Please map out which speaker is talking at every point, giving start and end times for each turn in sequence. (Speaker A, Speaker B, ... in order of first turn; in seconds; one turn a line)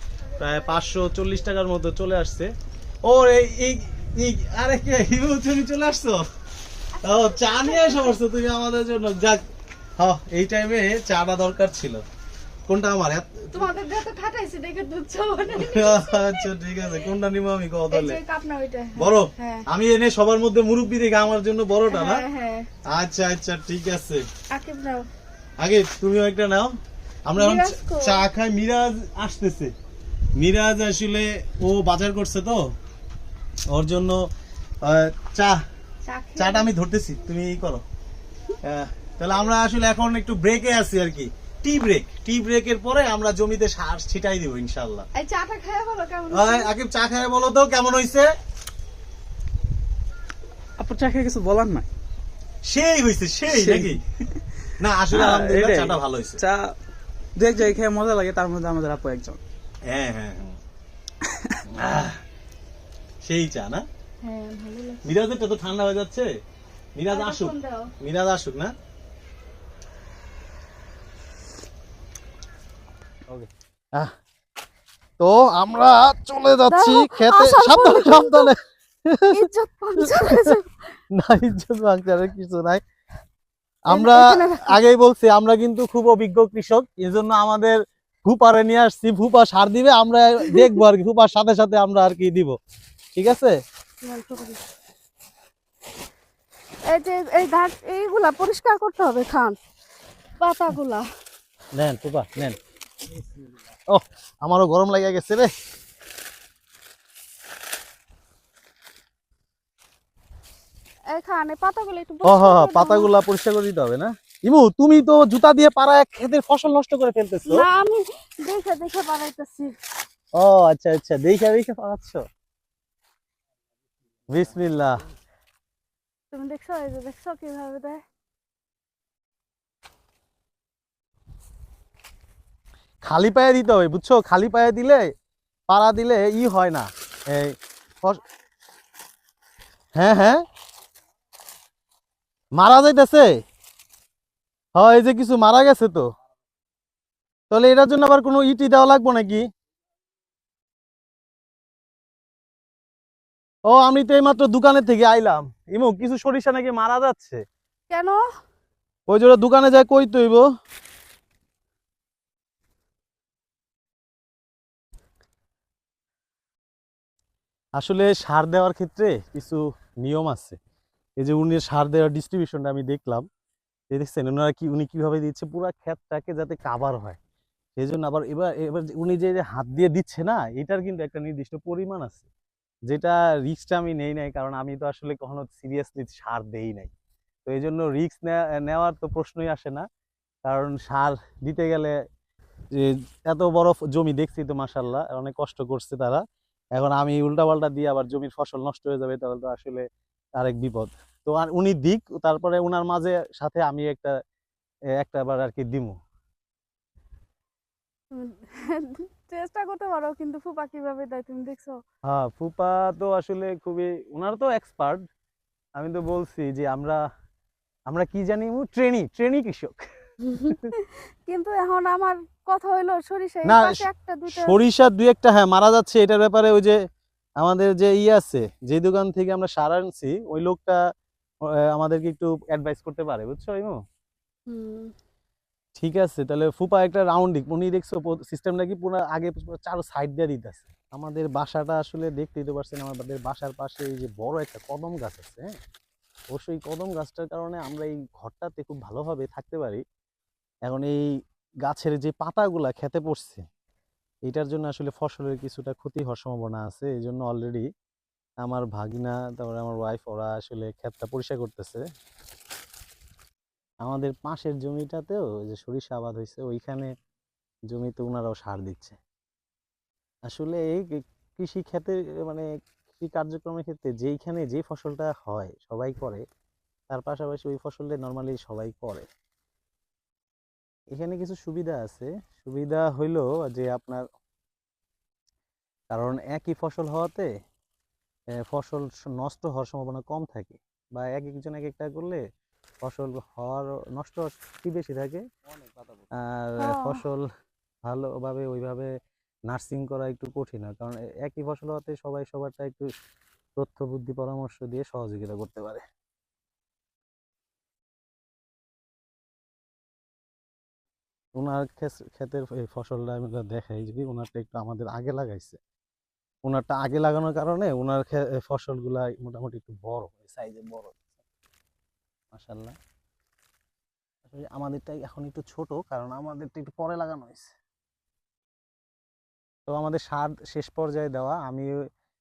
Speaker A: 0.4-2.5
Speaker A: 3.0-6.2
Speaker A: 7.0-9.4
Speaker B: 7.0-8.2
Speaker A: 10.0-12.0
Speaker A: 12.7-13.7
Speaker B: 13.5-16.5
Speaker A: 15.5-18.2
Speaker B: 17.9-19.6
Speaker A: 19.0-22.2
Speaker B: 21.9-22.7
Speaker A: 22.9-24.2
Speaker B: 24.5-25.1
Speaker A: 25.6-26.7
Speaker A: 27.3-29.7
Speaker B: 27.4-28.2
Speaker A: 30.4-32.6
Speaker A: 33.7-34.2
Speaker A: 34.8-35.6
Speaker B: 36.1-36.7
Speaker A: 36.4-37.8
Speaker A: 38.6-45.1
Speaker B: 45.1-46.7
Speaker A: 46.3-48.3
Speaker C: 50.8-51.9
Speaker A: 52.6-54.0
Speaker C: 53.5-54.0
Speaker A: 54.8-56.4
Speaker C: 55.1-56.8
Speaker C: 57.4-59.4
Speaker A: 59.9-60.6
Speaker C: 61.2-61.6
Speaker A: 61.7-62.2
Speaker A: 63.2-63.9
Speaker B: 64.2-65.0
Speaker A: 65.0-66.3
Speaker A: 67.0-68.7
Speaker B: 67.1-67.9
Speaker A: 73.3-74.1
Speaker A: 75.2-79.4
Speaker B: 76.7-78.5
Speaker B: 79.3-81.0
Speaker A: 80.0-80.6
Speaker A: 81.2-82.8
Speaker A: 83.9-92.6
Speaker B: 83.9-84.8
Speaker A: 93.2-93.5
Speaker B: 94.0-94.6
Speaker B: 96.9-99.6
Speaker B: 100.4-101.1
Speaker A: 101.8-102.6
Speaker A: 103.9-105.5
Speaker B: 111.1-113.1
Speaker A: 112.2-117.7
Speaker B: 117.5-119.8
Speaker A: 120.4-122.2
Speaker A: 124.3-125.0
Speaker B: 126.3-128.0
Speaker A: 133.0-135.1
Speaker A: 135.7-138.2
Speaker A: 140.0-140.4
Speaker A: 142.6-143.3
Speaker A: 144.8-146.1
Speaker A: 147.5-149.4
Speaker A: 153.7-157.4
Speaker B: 157.9-158.2
Speaker A: 159.1-160.5
Speaker A: 167.8-170.6
Speaker A: 171.2-173.3
Speaker A: 173.9-177.2
Speaker A: 177.8-182.3
Speaker A: 182.9-186.9
Speaker A: 187.5-189.9
Speaker A: 190.5-192.0
Speaker A: 192.7-196.2
Speaker A: 196.8-199.8
Speaker A: 200.4-204.2
Speaker A: 205.0-206.0
Speaker B: 208.1-211.8
Speaker A: 212.1-215.0
Speaker A: 215.8-217.0
Speaker A: 217.9-219.9
Speaker B: 220.2-224.6
Speaker A: 220.4-220.7
Speaker A: 223.4-226.8
Speaker A: 227.4-230.8
Speaker A: 231.4-233.8
Speaker B: 234.5-234.9
Speaker A: 235.8-245.6
Speaker A: 246.3-249.8
Speaker A: 250.7-251.0
Speaker A: 251.7-253.4
Speaker A: 254.3-257.7
Speaker A: 258.4-261.9
Speaker A: 263.8-266.9
Speaker A: 267.7-269.0
Speaker A: 270.3-276.2
Speaker A: 276.9-279.1
Speaker A: 280.9-284.1
Speaker A: 285.9-287.3
Speaker A: 288.5-292.2
Speaker A: 292.8-295.2
Speaker A: 296.1-297.3
Speaker B: 296.6-297.0
Speaker A: 297.9-298.9
Speaker A: 299.5-302.9
Speaker A: 303.6-305.8
Speaker A: 311.4-315.6
Speaker A: 316.4-321.1
Speaker A: 322.3-322.8
Speaker A: 324.3-327.5
Speaker A: 329.7-331.8